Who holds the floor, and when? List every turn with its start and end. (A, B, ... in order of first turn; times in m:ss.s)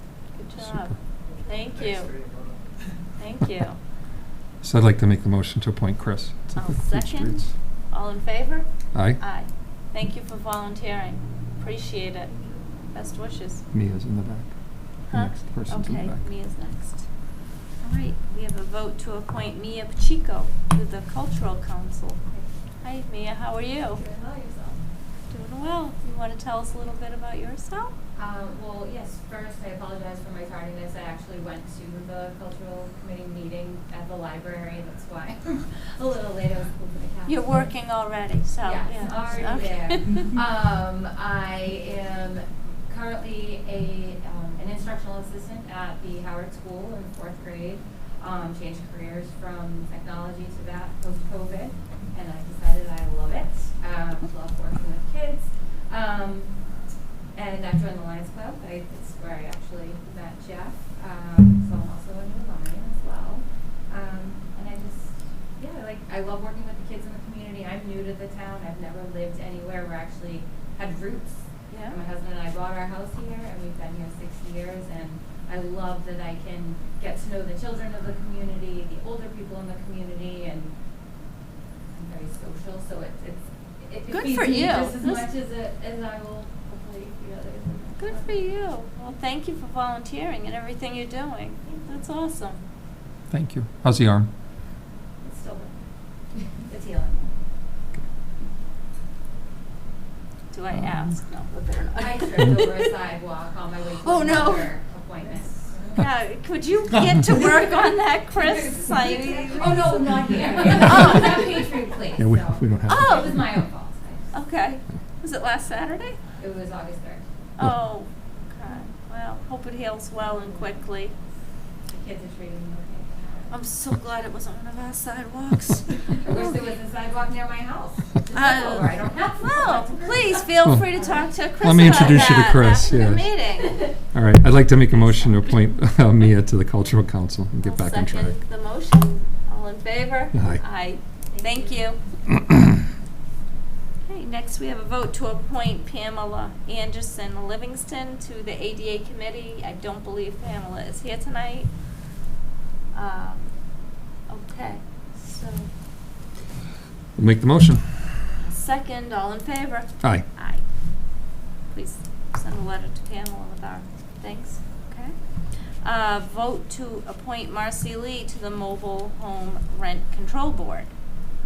0:00.3-0:02.1 A
0:00.6-0:00.9 B
0:03.2-0:03.8 A
0:04.6-0:07.5 B
0:06.5-0:13.6 A
0:08.9-0:09.2 B
0:13.7-0:16.2 B
0:15.1-0:17.1 A
0:17.8-0:22.2 A
0:22.8-0:24.0 A
0:23.9-0:24.8 C
0:25.3-0:27.9 A
0:28.2-0:37.7 C
0:37.2-0:40.3 A
0:38.6-0:56.6 C
0:57.3-1:20.7 C
1:11.7-1:12.0 A
1:21.9-1:28.4 C
1:24.1-1:25.3 A
1:28.0-1:32.6 A
1:31.7-1:32.0 C
1:33.3-1:34.3 B
1:35.2-1:35.8 C
1:36.3-1:37.3 C
1:40.5-1:42.8 A
1:40.7-1:41.1 B
1:41.9-1:46.0 C
1:44.0-1:44.7 A
1:45.9-1:51.6 A
1:47.2-1:54.3 C
1:52.2-1:53.6 B
1:52.9-1:53.3 A
1:54.3-1:56.2 A
1:56.4-1:57.2 C
1:57.6-2:01.1 A
2:00.2-2:00.7 C
2:01.9-2:03.6 C
2:03.5-2:06.6 A
2:06.1-2:12.9 C
2:08.3-2:13.8 A
2:11.6-2:13.3 B
2:14.1-2:18.4 B
2:14.9-2:15.7 A
2:17.6-2:22.0 A
2:20.3-2:20.6 B
2:21.3-2:21.9 C
2:24.0-2:31.7 A
2:32.9-2:35.7 A
2:37.2-2:38.1 B
2:38.4-2:50.9 A